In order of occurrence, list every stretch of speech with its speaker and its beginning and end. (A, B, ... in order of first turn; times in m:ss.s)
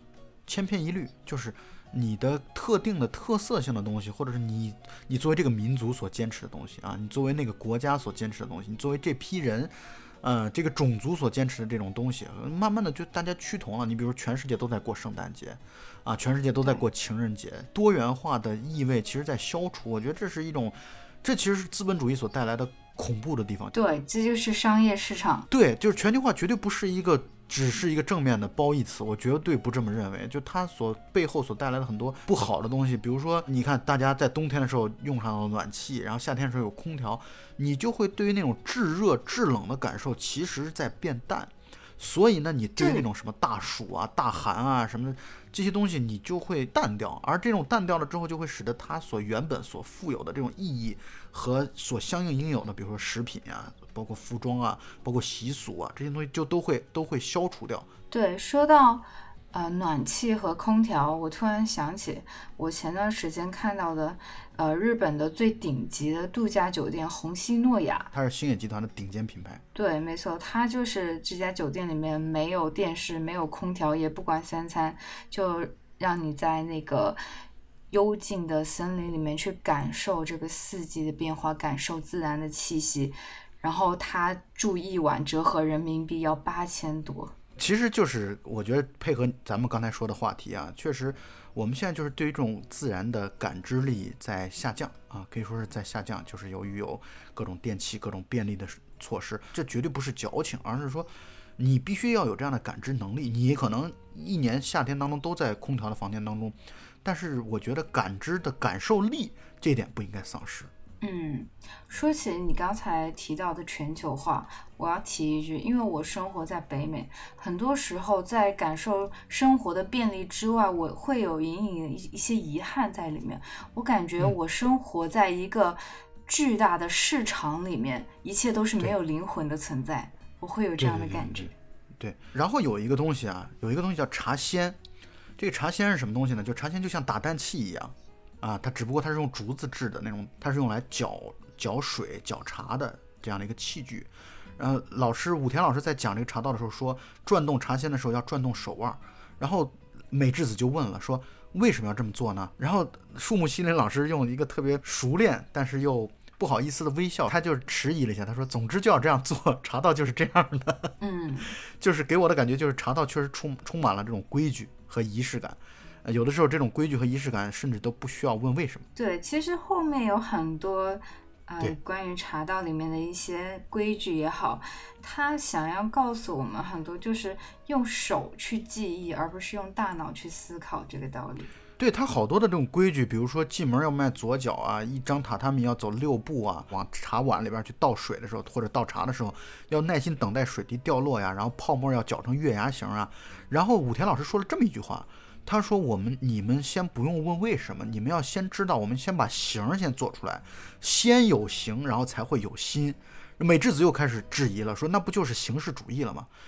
0:00.5-0:23.7 A
0:23.7-0:25.5 B
0:25.5-0:57.9 A
0:42.8-0:43.0 B
0:58.1-1:08.1 B
1:08.1-1:09.6 A
1:09.7-1:17.2 B
1:17.9-1:27.3 B
1:27.6-1:50.7 A
1:51.0-2:11.5 B
2:10.8-2:14.8 A
2:15.4-2:40.9 A
2:41.0-2:41.5 B
2:41.5-2:48.9 A
2:49.0-3:01.5 B
3:01.8-3:26.3 A